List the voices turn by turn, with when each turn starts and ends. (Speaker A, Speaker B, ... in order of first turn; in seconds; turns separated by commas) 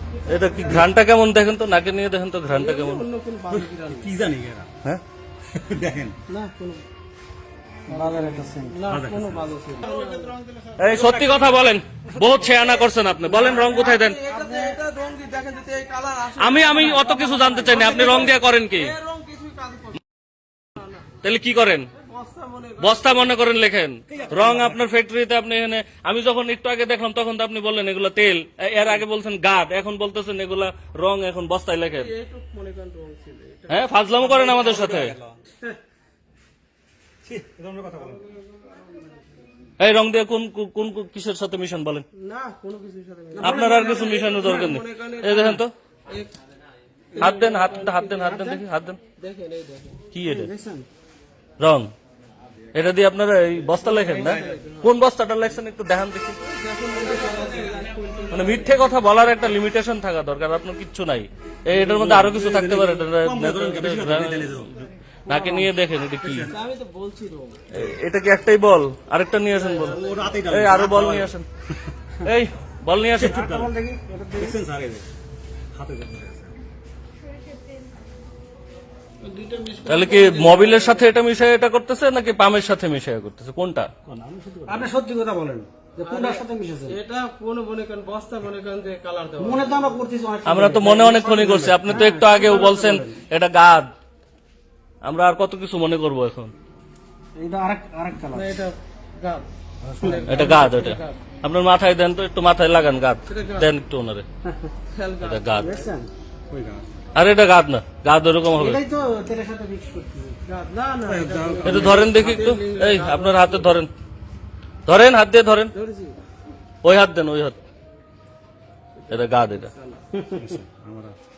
Speaker A: 0.3-0.9, Speaker B: 0.3-3.0, Speaker A: 2.5-4.1, Speaker C: 3.5-4.7, Speaker C: 5.5-6.1, Speaker A: 6.3-6.8, Speaker D: 7.9-8.8, Speaker A: 8.7-10.4, Speaker C: 8.9-9.4, Speaker B: 10.8-14.2, Speaker A: 13.2-20.0, Speaker B: 16.4-18.9, Speaker A: 20.7-21.1, Speaker B: 21.2-21.9, Speaker A: 21.9-23.4, Speaker B: 22.8-32.1, Speaker C: 24.1-24.8, Speaker A: 31.9-33.9, Speaker B: 33.7-35.2, Speaker C: 34.2-35.4, Speaker C: 37.2-38.2, Speaker B: 39.8-42.0, Speaker A: 42.1-46.3, Speaker D: 43.4-43.8, Speaker B: 43.4-45.7, Speaker A: 47.1-48.6, Speaker B: 47.2-49.0, Speaker A: 49.2-50.0, Speaker B: 50.1-50.5, Speaker D: 50.2-50.9, Speaker B: 51.6-51.9, Speaker B: 52.7-56.4, Speaker A: 53.9-54.8, Speaker C: 54.2-54.6, Speaker A: 56.4-58.9, Speaker B: 58.3-66.5, Speaker C: 61.8-64.7, Speaker C: 66.2-66.5, Speaker A: 66.5-67.6, Speaker B: 67.7-71.5, Speaker A: 69.6-70.3, Speaker C: 69.8-71.3, Speaker B: 72.2-73.5, Speaker C: 73.2-73.7, Speaker D: 73.2-74.6, Speaker C: 74.3-75.1, Speaker C: 75.7-76.6, Speaker A: 79.2-81.0, Speaker B: 79.8-83.9, Speaker C: 84.0-84.9, Speaker D: 84.7-87.0, Speaker A: 86.0-90.0, Speaker D: 89.4-93.2, Speaker B: 90.4-93.9, Speaker A: 92.1-92.5, Speaker B: 95.0-96.5, Speaker D: 97.3-98.5, Speaker A: 98.3-99.5, Speaker C: 99.9-100.2, Speaker D: 100.0-100.5, Speaker A: 100.0-101.2, Speaker B: 100.3-104.2, Speaker A: 103.3-103.7, Speaker A: 104.8-105.9, Speaker B: 105.2-105.7, Speaker D: 105.6-106.1, Speaker C: 106.5-106.9, Speaker B: 107.1-108.8, Speaker D: 108.5-110.4, Speaker A: 110.4-113.8, Speaker C: 111.0-112.3, Speaker B: 111.6-113.9, Speaker B: 114.8-115.7, Speaker A: 115.7-116.2, Speaker B: 116.8-117.6, Speaker A: 119.0-120.0, Speaker B: 119.1-119.7, Speaker D: 120.2-120.5, Speaker C: 120.3-121.2